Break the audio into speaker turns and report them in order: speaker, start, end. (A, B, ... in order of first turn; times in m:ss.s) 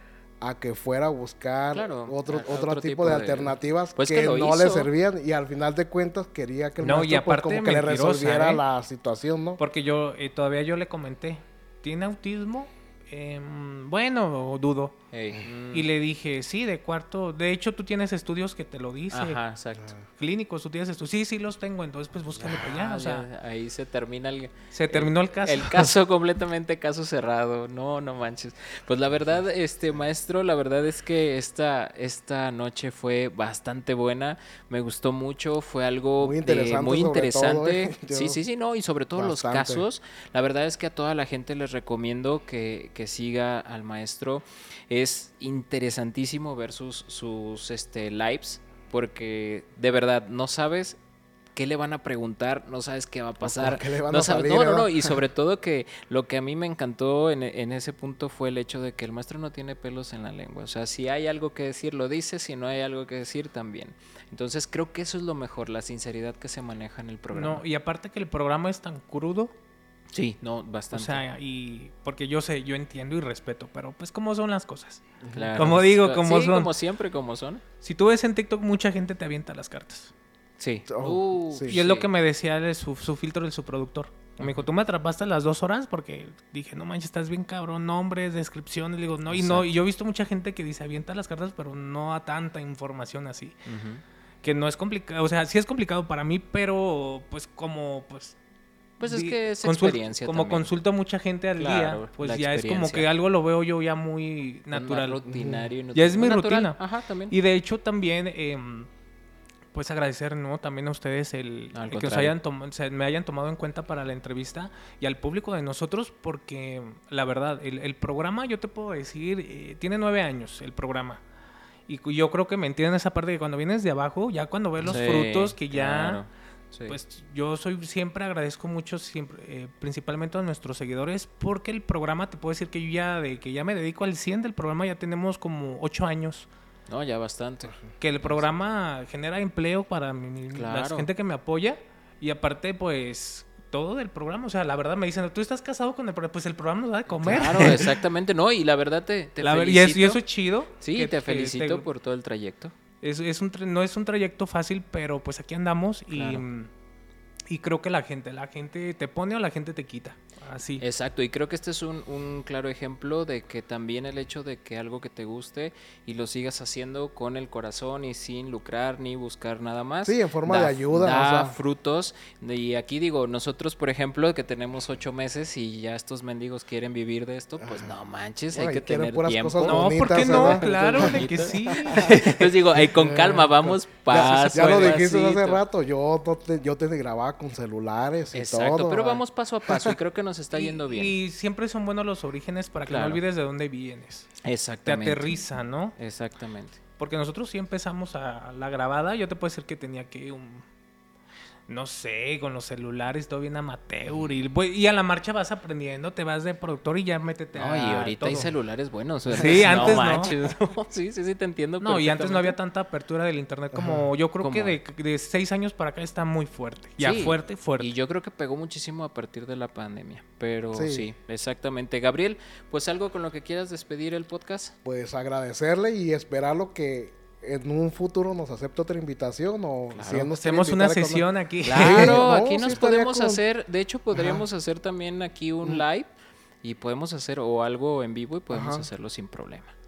0:00.4-0:09.6 A
0:01.7-0:04.9 B
0:06.8-0:08.6 C
0:09.6-0:15.0 C
0:15.1-0:15.9 B
0:15.7-0:19.4 C
0:19.1-0:19.9 B
0:20.1-0:23.2 C
0:22.4-0:51.0 B
0:24.7-0:25.9 C
0:36.2-0:38.4 A
0:39.1-0:39.8 A
0:51.5-1:07.6 B
0:53.4-0:55.2 A
1:07.3-1:09.5 C
1:10.1-1:11.2 B
1:10.9-1:15.0 C
1:15.2-1:15.6 A
1:15.3-1:17.6 B
1:15.6-1:16.7 C
1:17.8-1:20.1 C
1:20.6-1:22.1 B
1:20.9-1:21.8 A
1:21.7-1:33.6 C
1:24.4-1:24.7 B
1:29.3-1:29.8 B
1:33.6-1:34.0 B
1:34.4-1:38.4 C
1:39.0-1:40.7 B
1:39.0-1:45.2 C
1:41.6-1:43.1 B
1:44.7-1:47.3 B
1:45.3-1:45.7 A
1:45.9-1:46.8 C
1:47.3-1:48.9 C
1:49.7-2:01.2 C
1:51.7-1:52.3 B
2:01.9-2:06.2 C
2:04.8-2:07.0 B
2:06.9-2:16.5 C
2:16.9-2:18.4 B
2:18.0-2:28.0 C
2:20.5-2:21.1 B
2:27.1-2:30.2 B
2:29.4-2:31.8 C
2:30.8-2:32.7 B
2:33.0-2:36.7 C
2:36.1-2:36.4 B
2:37.5-2:40.8 C
2:40.8-3:05.6 B
2:50.0-2:51.6 A
2:57.6-2:57.9 A
2:58.5-3:02.1 A
2:59.6-3:02.5 C
3:02.9-3:10.0 A
3:04.1-3:05.2 C
3:08.3-3:11.1 B
3:10.5-3:16.0 C
3:12.9-3:13.2 B
3:14.4-3:15.2 B
3:16.0-3:16.8 B
3:17.0-3:20.6 C
3:21.7-3:28.5 C
3:27.5-3:32.6 B
3:29.3-3:30.3 C
3:31.8-3:37.9 C
3:33.7-3:34.0 A
3:34.4-3:34.8 B
3:37.0-3:44.7 B
3:40.7-3:41.1 A
3:44.8-3:53.4 A
3:49.9-3:50.3 B
3:50.3-3:52.2 C
3:51.6-3:56.1 B
3:54.1-3:54.4 A
3:56.6-3:59.7 B
3:58.5-3:58.9 A